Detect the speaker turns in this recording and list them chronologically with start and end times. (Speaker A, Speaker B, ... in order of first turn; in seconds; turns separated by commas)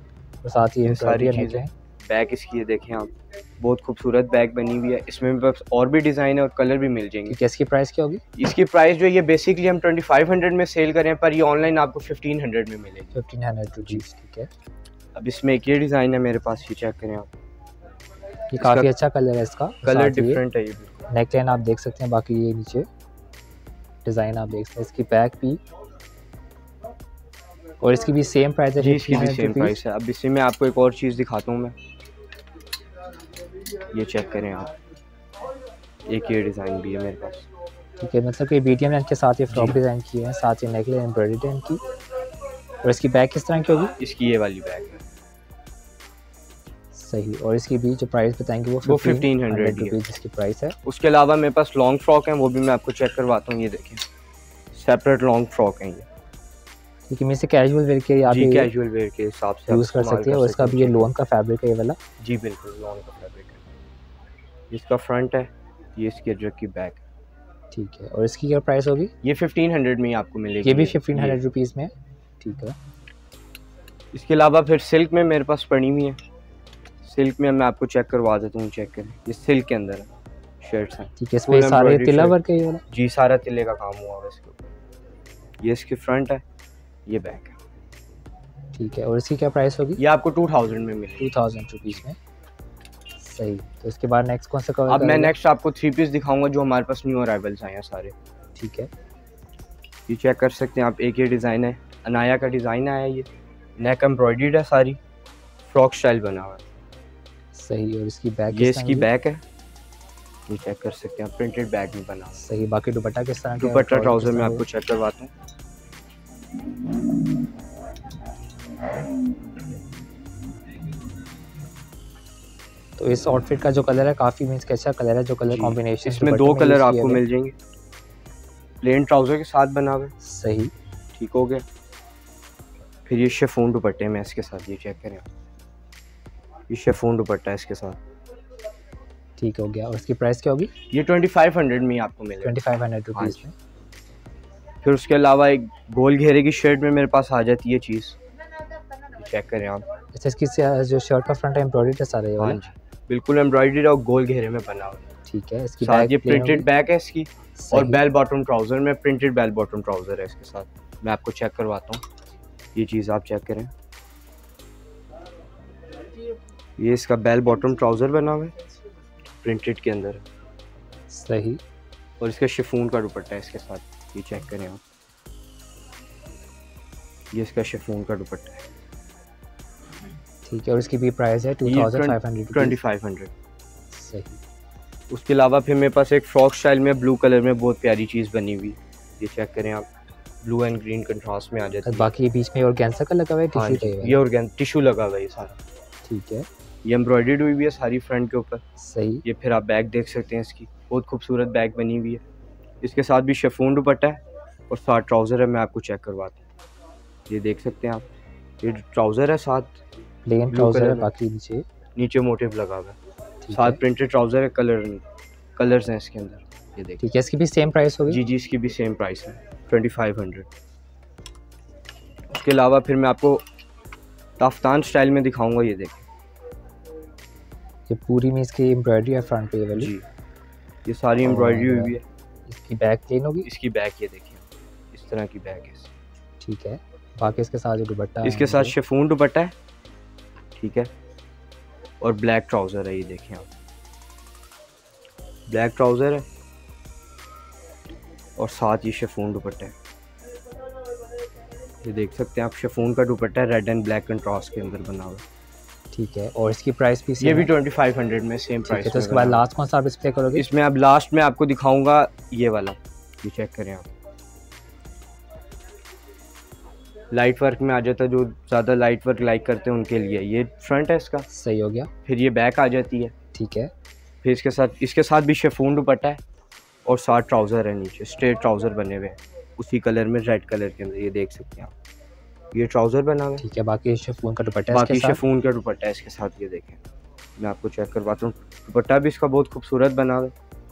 Speaker A: 0.4-1.7, Speaker B: 0.8-7.4, Speaker A: 7.3-8.2, Speaker B: 8.3-13.1, Speaker A: 13.1-14.5, Speaker B: 15.2-17.3, Speaker A: 18.5-20.4, Speaker B: 18.6-18.9, Speaker B: 19.8-21.1, Speaker A: 21.1-22.9, Speaker A: 24.1-25.6, Speaker A: 27.8-29.8, Speaker B: 28.8-31.8, Speaker B: 33.9-34.7, Speaker B: 36.1-37.5, Speaker A: 38.0-41.8, Speaker B: 39.5-39.8, Speaker A: 42.8-43.9, Speaker B: 44.0-45.0, Speaker A: 46.9-50.8, Speaker B: 48.8-50.0, Speaker B: 50.8-54.0, Speaker B: 54.7-56.1, Speaker A: 57.1-58.7, Speaker B: 58.3-61.1, Speaker A: 59.7-62.0, Speaker B: 62.2-63.6, Speaker B: 64.7-67.0, Speaker A: 67.7-69.1, Speaker B: 69.2-71.4, Speaker A: 70.6-72.8, Speaker B: 74.1-76.2, Speaker B: 77.0-80.1, Speaker B: 80.6-82.4, Speaker A: 81.2-82.8, Speaker B: 82.9-84.7, Speaker B: 85.6-86.4, Speaker B: 87.1-87.6, Speaker A: 88.8-90.0, Speaker B: 90.0-91.3, Speaker A: 91.2-92.2, Speaker A: 93.2-95.3, Speaker B: 94.9-98.2, Speaker A: 98.6-98.9, Speaker B: 100.1-103.3, Speaker B: 103.8-105.0, Speaker B: 105.7-106.6, Speaker A: 107.5-109.1, Speaker B: 108.5-109.4, Speaker B: 110.5-112.4, Speaker A: 112.4-114.7, Speaker B: 113.6-115.3, Speaker A: 123.0-127.2, Speaker B: 125.5-127.5, Speaker B: 128.8-130.1, Speaker A: 130.2-130.7, Speaker B: 131.2-131.7, Speaker B: 133.1-135.3, Speaker B: 136.7-138.0, Speaker A: 139.4-140.7, Speaker B: 140.9-142.6, Speaker A: 142.4-143.5, Speaker B: 144.8-148.2, Speaker B: 149.2-149.8, Speaker A: 150.1-152.6, Speaker B: 152.4-155.1, Speaker A: 155.3-156.7, Speaker B: 155.8-162.0, Speaker A: 157.6-158.0, Speaker B: 162.8-163.7, Speaker B: 166.8-168.5, Speaker B: 169.4-170.2, Speaker A: 171.1-171.6, Speaker B: 172.2-174.8, Speaker B: 177.3-178.6, Speaker A: 180.4-182.8, Speaker B: 181.7-183.3, Speaker A: 183.9-184.4, Speaker B: 185.1-189.9, Speaker B: 190.4-192.1, Speaker A: 191.8-194.2, Speaker B: 193.5-195.6, Speaker A: 196.1-196.5, Speaker B: 196.8-198.6, Speaker A: 198.8-199.2, Speaker B: 199.2-202.2, Speaker B: 202.8-204.2, Speaker B: 204.7-206.4, Speaker B: 207.3-208.1, Speaker B: 208.6-209.8, Speaker A: 210.2-211.6, Speaker B: 210.5-211.1, Speaker B: 212.0-213.0, Speaker A: 213.4-213.8, Speaker B: 213.5-215.0, Speaker B: 215.6-217.0, Speaker A: 217.0-218.2, Speaker B: 218.1-220.5, Speaker B: 222.3-223.4, Speaker B: 224.4-226.1, Speaker A: 227.9-229.9, Speaker B: 229.8-230.0, Speaker B: 230.8-232.0, Speaker A: 231.2-231.9, Speaker A: 232.5-233.5, Speaker B: 233.4-235.9, Speaker A: 236.4-238.7, Speaker B: 238.2-239.5, Speaker B: 240.6-240.9, Speaker B: 242.0-243.5, Speaker B: 245.5-246.2, Speaker B: 248.4-249.7, Speaker B: 251.8-255.2, Speaker A: 255.9-257.5, Speaker B: 257.2-259.4, Speaker A: 258.7-260.5, Speaker B: 260.4-263.9, Speaker B: 267.1-271.3, Speaker A: 271.3-271.9, Speaker B: 272.1-273.1, Speaker A: 273.4-273.7, Speaker B: 274.2-276.2, Speaker B: 276.9-281.7, Speaker B: 282.5-283.4, Speaker A: 283.4-285.2, Speaker B: 284.7-286.8, Speaker B: 287.4-290.3